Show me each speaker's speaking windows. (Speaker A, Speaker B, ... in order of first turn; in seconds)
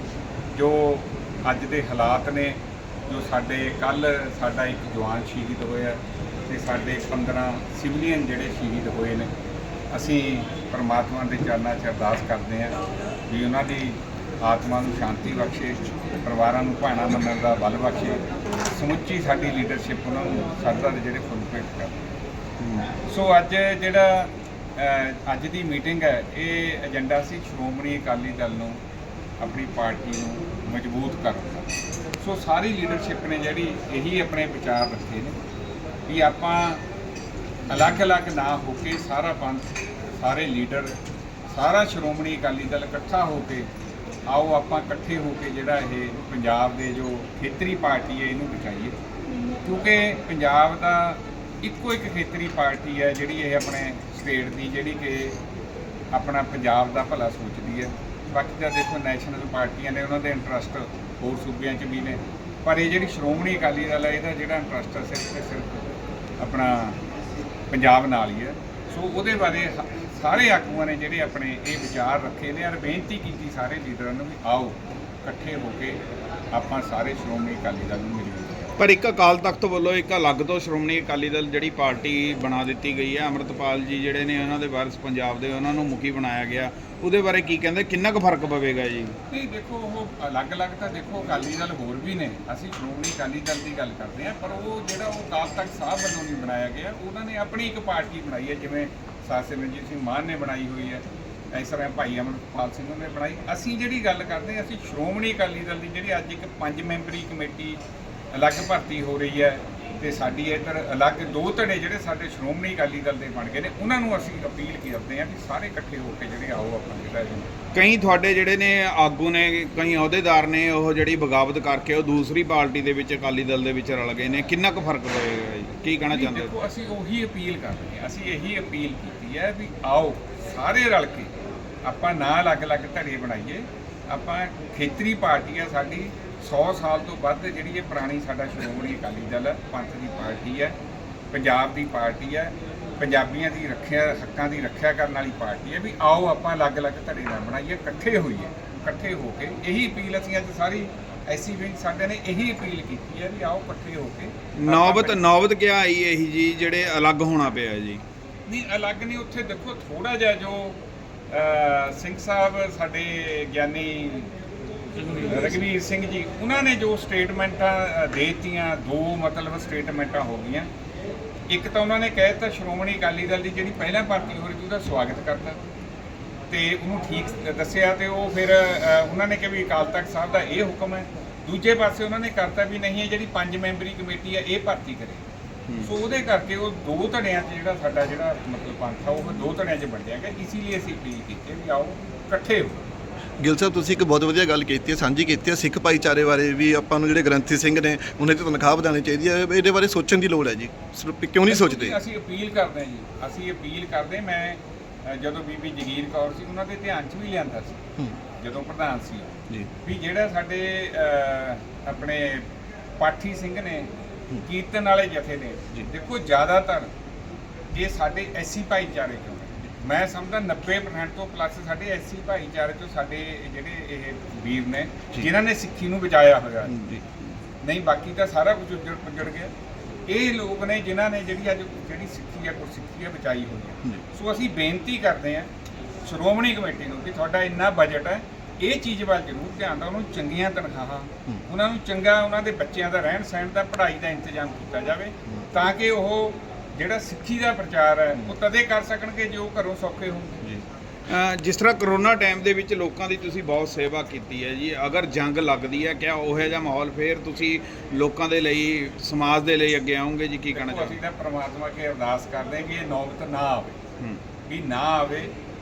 Speaker A: 0.5-9.3, 9.9-12.8, 13.3-22.0, 23.0-28.8, 29.4-35.3, 36.0-36.8, 37.7-41.0, 41.5-43.7, 44.3-49.0, 49.6-55.4, 56.1-67.0, 67.7-76.0, 76.5-78.7, 89.3-107.8, 108.3-117.5, 126.1-140.8, 141.3-155.2, 158.5-160.8, 161.3-164.3, 165.1-170.7, 171.5-175.6, 176.5-185.2, 185.8-192.8, 201.4-207.8, 208.4-212.5, 213.0-213.9, 214.4-216.9, 217.7-226.8, 227.6-229.5, 230.1-235.5, 236.0-250.4, 260.5-263.8, 264.4-265.3
Speaker B: 22.6-22.9, 78.8-89.1, 117.7-126.5, 154.6-158.0, 251.1-260.9
Speaker C: 193.4-202.0, 226.7-227.0